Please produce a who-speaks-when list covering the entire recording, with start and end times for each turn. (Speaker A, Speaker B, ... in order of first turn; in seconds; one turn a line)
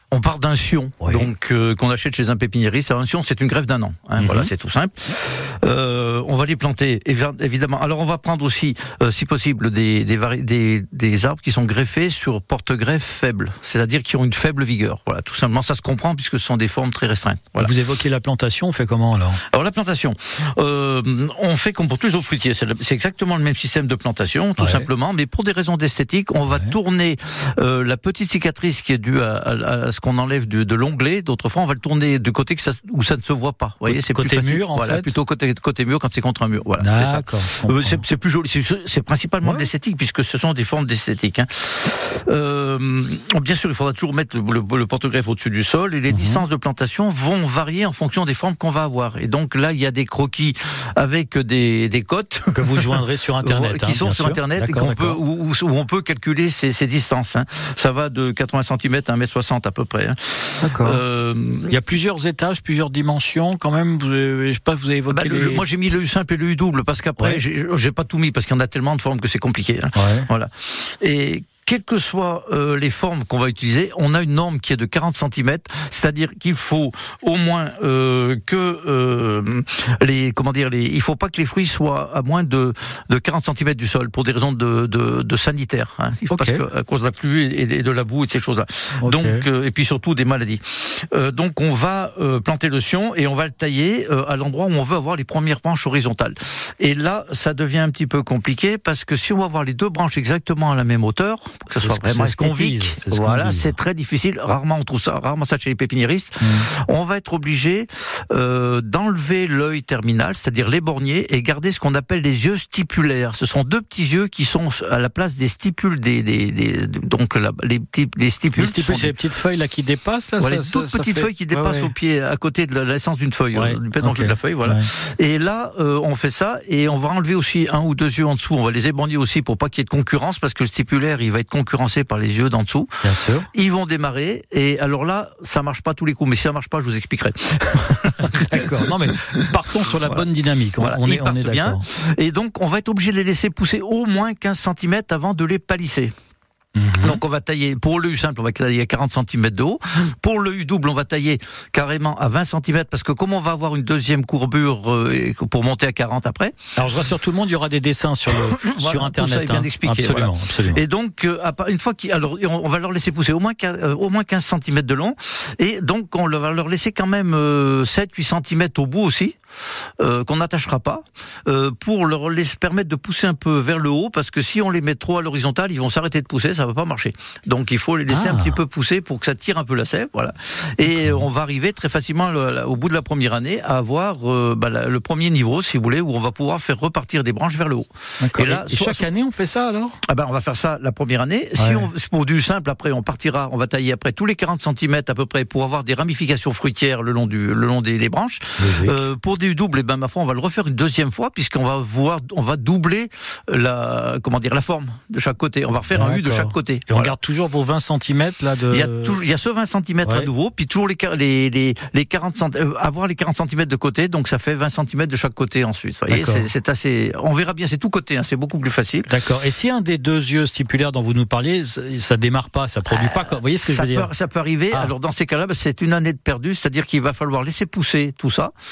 Speaker A: 0.1-17.7
Speaker B: 1.0-1.3
Speaker B: 4.2-4.5
Speaker B: 17.6-19.4
Speaker A: 19.5-61.8
Speaker B: 24.6-24.9
Speaker B: 26.5-26.7
Speaker B: 33.9-35.1
Speaker B: 36.8-38.0
Speaker B: 39.4-39.7
Speaker B: 46.1-46.4
Speaker B: 52.5-55.2
Speaker B: 60.6-61.0
Speaker B: 61.7-65.7
Speaker A: 65.1-119.2
Speaker B: 67.2-67.4
Speaker B: 70.0-70.3
Speaker B: 86.3-86.6
Speaker B: 89.0-89.4
Speaker B: 101.7-103.8
Speaker B: 106.4-106.7
Speaker B: 118.6-121.9
Speaker A: 120.4-132.9
Speaker B: 123.5-124.9
Speaker B: 133.0-133.5
Speaker A: 133.5-139.3
Speaker B: 138.2-141.8
Speaker A: 140.0-146.1
Speaker B: 146.8-147.2
Speaker A: 147.0-156.5
Speaker B: 156.8-160.8
Speaker A: 158.3-169.4
Speaker A: 170.0-189.1
Speaker B: 178.1-178.6
Speaker B: 180.9-181.2
Speaker B: 188.2-190.0
Speaker A: 190.1-207.2
Speaker B: 191.6-191.9
Speaker B: 198.6-199.0
Speaker B: 205.9-209.2
Speaker A: 208.7-219.1
Speaker B: 210.0-210.3
Speaker B: 216.1-216.5
Speaker B: 219.1-224.1
Speaker A: 222.9-228.5